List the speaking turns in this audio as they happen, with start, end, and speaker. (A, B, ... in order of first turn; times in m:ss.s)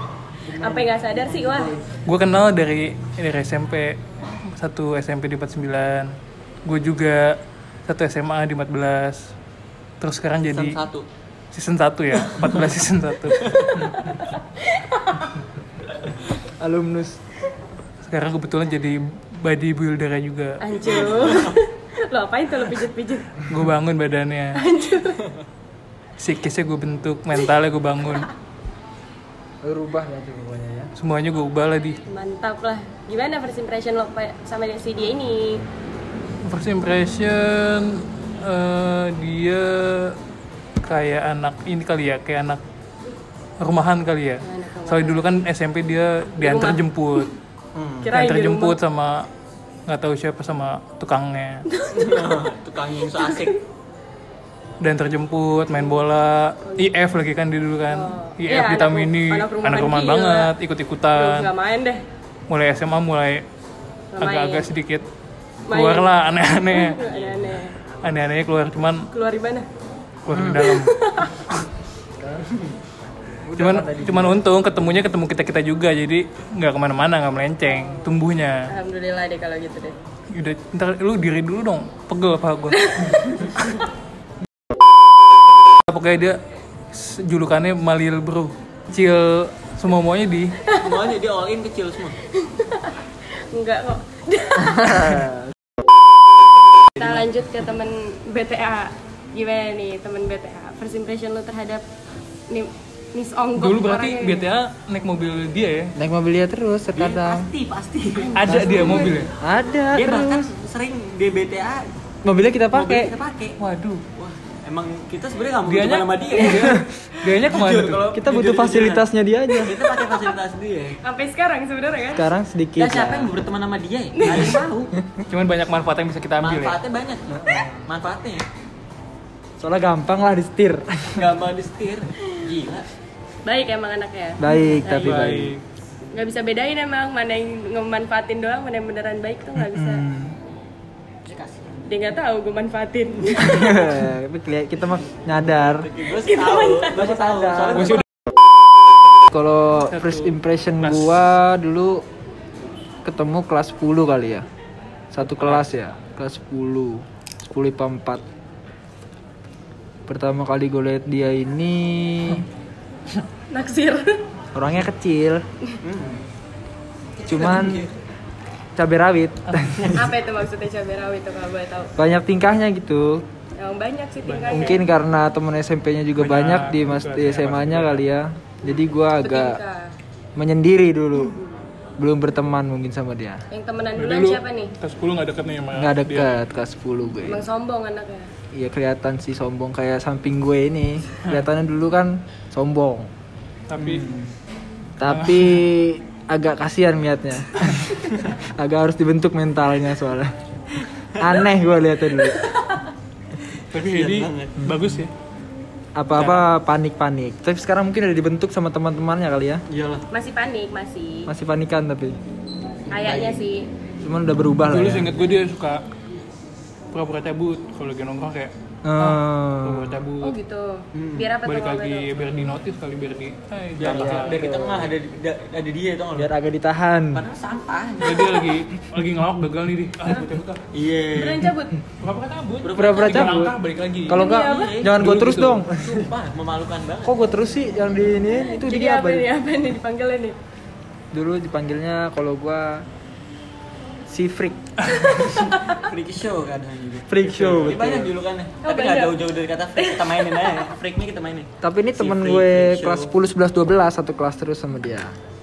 0:00.5-0:01.9 A
0:00.6-0:01.7 B
0:02.1-0:06.1 C
0:06.7-0:07.4 C
0:07.9-0:09.3 C
0:10.0-0:10.8 C
0:10.5-0:11.1 A
0:11.5-0:13.5 C
0:13.4-0:13.9 A
0:14.0-0:15.3 B
0:16.6-0:17.2 D
0:18.0-0:20.6 C
0:20.6-0:23.3 B
0:20.8-0:21.6 A
0:23.5-0:24.6 C
0:24.6-0:25.2 B
0:26.2-0:28.3 C
0:29.6-0:30.9 D
0:31.0-0:32.0 C
0:32.1-0:35.6 B
0:36.5-0:40.2 C
0:40.8-0:42.6 C
0:43.6-0:47.3 C
0:44.4-0:45.2 B
0:46.4-0:46.8 B
0:47.8-0:48.1 A
0:48.0-0:48.8 B
0:48.1-0:49.3 C
0:49.9-0:51.7 C
0:51.7-0:52.4 B
0:51.9-0:53.5 A
0:53.2-0:53.5 B
0:54.8-1:01.5 C
0:57.9-1:00.5 B
1:01.2-1:02.0 B
1:02.5-1:03.4 C
1:04.1-1:04.7 B
1:04.2-1:05.0 C
1:05.7-1:06.1 B
1:05.7-1:07.0 C
1:06.7-1:07.7 B
1:07.1-1:07.6 A
1:08.0-1:09.0 C
1:09.1-1:09.7 B
1:10.3-1:10.9 C
1:10.3-1:10.6 D
1:10.5-1:11.3 B
1:12.2-1:12.5 D
1:13.4-1:14.5 D
1:13.6-1:18.6 C
1:17.6-1:18.1 B
1:18.7-1:19.9 B
1:20.3-1:22.9 C
1:22.8-1:23.4 B
1:25.9-1:26.4 C
1:26.9-1:30.6 C
1:30.8-1:32.2 A
1:32.4-1:32.9 B
1:33.5-1:35.1 B
1:34.8-1:35.4 D
1:37.0-1:41.8 B
1:42.5-1:44.5 B
1:43.6-1:45.9 C
1:46.0-1:47.5 D
1:47.0-1:48.3 A
1:48.2-1:49.2 B
1:48.4-1:49.3 C
1:48.5-1:50.5 D
1:49.9-1:51.9 A
1:52.2-1:53.1 D
1:52.7-1:53.6 A
1:53.6-1:54.0 C
1:54.1-1:56.8 A
1:55.6-1:58.0 C
1:56.5-1:56.8 D
1:57.3-1:59.1 A
1:58.1-1:59.8 D
1:59.6-2:01.0 A
2:01.0-2:02.2 B
2:02.2-2:03.3 D
2:02.8-2:04.9 A
2:04.2-2:04.6 B
2:05.3-2:06.8 C
2:06.4-2:08.4 A
2:07.3-2:07.9 D
2:09.6-2:11.3 D
2:11.2-2:12.9 A
2:13.5-2:15.2 B
2:14.4-2:15.5 D
2:14.9-2:15.6 C
2:16.2-2:20.0 B
2:19.6-2:20.4 D
2:21.3-2:21.8 A
2:21.9-2:23.8 B
2:23.4-2:25.9 D
2:25.4-2:28.0 A
2:26.2-2:27.0 B
2:26.9-2:28.0 D
2:29.3-2:32.0 D
2:29.9-2:31.2 C
2:33.0-2:34.5 D
2:35.1-2:38.2 D
2:40.1-2:42.4 D
2:43.5-2:44.2 B
2:44.5-2:45.4 D
2:45.8-2:46.2 A
2:47.3-2:47.9 D
2:47.3-2:47.9 A
2:48.8-2:49.9 D
2:50.0-2:51.9 B
2:52.0-2:53.2 D
2:53.6-2:54.8 B
2:54.3-2:54.6 C
2:54.5-2:59.6 D
2:56.2-2:58.0 C
2:59.2-2:59.9 B
3:00.4-3:01.4 D
3:01.2-3:01.6 B
3:02.0-3:03.4 D
3:03.5-3:04.7 B
3:04.0-3:06.4 C
3:05.8-3:07.4 D
3:07.3-3:08.3 B
3:08.5-3:13.1 D
3:13.7-3:14.1 C
3:13.8-3:14.3 D
3:15.0-3:17.8 D
3:15.1-3:15.6 C
3:18.6-3:20.3 D
3:21.2-3:22.4 D
3:23.7-3:25.1 C
3:23.8-3:24.6 A
3:26.0-3:29.6 D
3:29.7-3:30.0 A
3:30.1-3:31.3 B
3:31.3-3:32.2 D
3:32.9-3:33.4 A
3:32.9-3:33.7 B
3:34.0-3:35.1 D
3:34.7-3:35.8 C
3:36.9-3:40.3 C
3:38.8-3:40.0 D
3:40.2-3:42.2 B
3:40.9-3:41.3 A
3:41.4-3:44.5 C
3:43.8-3:46.3 A
3:43.8-3:44.9 D
3:46.2-3:47.2 D
3:47.1-3:48.5 A
3:48.0-3:50.6 C
3:50.7-3:51.5 A
3:51.2-3:51.7 B
3:52.0-3:54.3 C
3:52.6-3:53.4 A
3:52.7-3:53.6 D
3:54.1-3:56.1 D
3:54.2-3:54.8 B
3:54.3-3:55.1 A
3:55.0-3:55.6 C
3:55.8-3:57.2 A
3:57.0-3:59.3 D
3:58.6-4:00.4 B
4:01.1-4:02.8 D
4:04.1-4:04.6 D
4:05.3-4:13.1 A
4:05.4-4:05.8 B
4:07.1-4:08.1 D
4:08.6-4:09.2 B
4:09.8-4:10.6 B
4:11.6-4:15.1 D